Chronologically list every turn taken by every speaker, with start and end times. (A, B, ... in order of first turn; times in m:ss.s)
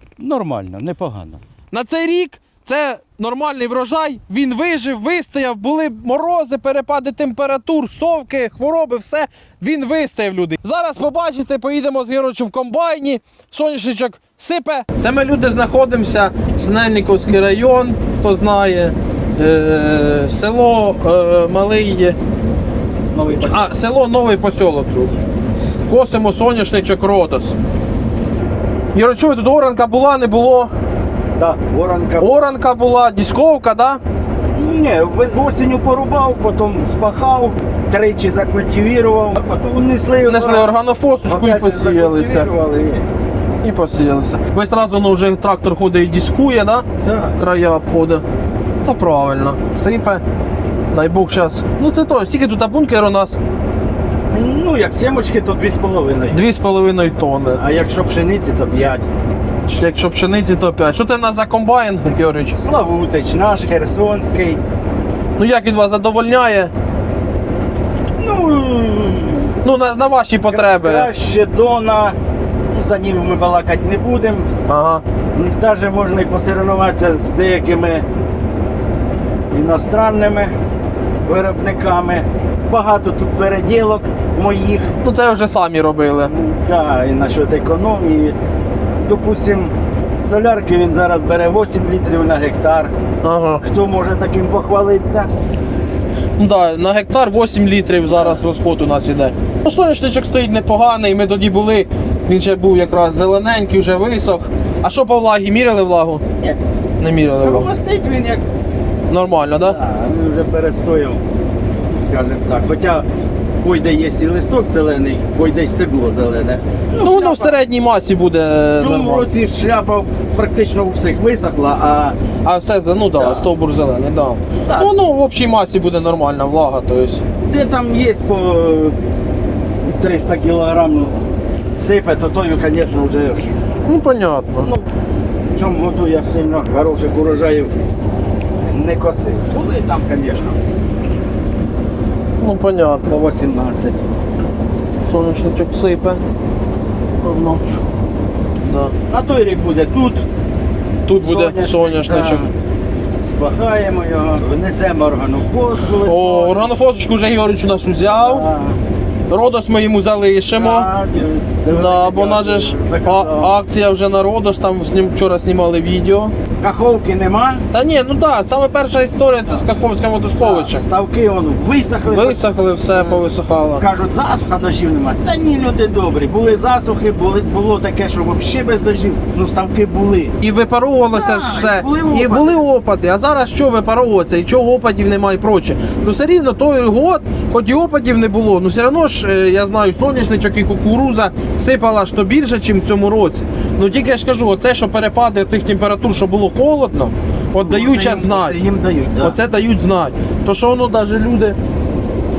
0:00.2-0:01.4 A
0:01.7-0:22.2 B
0:23.1-0:23.8 A
0:23.3-0:25.2 B
0:25.9-0:27.6 B
0:28.9-0:30.7 B
0:31.4-0:32.4 A
0:32.2-0:34.0 B
0:34.5-0:40.7 A
0:40.3-0:42.5 B
0:41.3-0:43.0 A
0:43.6-0:48.2 B
0:47.0-0:47.4 A
0:48.8-0:50.2 B
0:50.9-0:53.4 B
0:54.3-0:56.4 A
0:56.3-0:57.6 B
0:57.6-0:59.1 A
0:59.7-1:02.6 B
1:02.5-1:04.6 A
1:05.4-1:06.7 B
1:08.2-1:09.6 A
1:09.6-1:11.1 B
1:10.5-1:12.2 A
1:12.7-1:14.5 A
1:14.7-1:15.0 B
1:15.4-1:18.0 A
1:19.5-1:20.5 A
1:21.2-1:24.9 A
1:25.0-1:26.3 B
1:26.3-1:28.4 A
1:29.0-1:32.9 A
1:33.2-1:33.6 B
1:33.6-1:35.3 A
1:36.4-1:46.2 B
1:38.1-1:38.4 A
1:47.0-1:47.7 B
1:47.4-1:48.4 A
1:49.1-1:49.8 B
1:49.6-1:51.2 A
1:51.8-1:53.1 A
1:53.6-1:57.6 A
1:57.0-1:59.3 B
1:58.8-2:02.2 A
2:02.4-2:07.2 B
2:03.2-2:03.5 A
2:04.6-2:04.9 A
2:07.5-2:09.0 A
2:09.8-2:11.2 A
2:11.8-2:13.5 A
2:13.8-2:14.7 B
2:14.6-2:14.9 A
2:15.5-2:17.7 A
2:18.7-2:20.6 A
2:22.4-2:23.1 B
2:23.1-2:24.0 A
2:25.1-2:26.2 B
2:27.2-2:27.8 B
2:28.6-2:29.0 B
2:29.1-2:30.2 A
2:31.1-2:32.4 B
2:31.2-2:32.5 A
2:33.2-2:36.7 A
2:36.0-2:38.4 B
2:38.1-2:38.8 A
2:39.3-2:40.9 B
2:40.6-2:43.6 A
2:41.7-2:46.3 B
2:46.6-2:47.6 A
2:47.7-2:50.8 B
2:50.4-2:52.4 A
2:52.0-2:53.8 B
2:52.9-2:53.3 A
2:53.8-3:00.4 A
3:00.4-3:18.6 B
3:01.1-3:02.6 A
3:17.6-3:19.4 A
3:19.2-3:21.6 B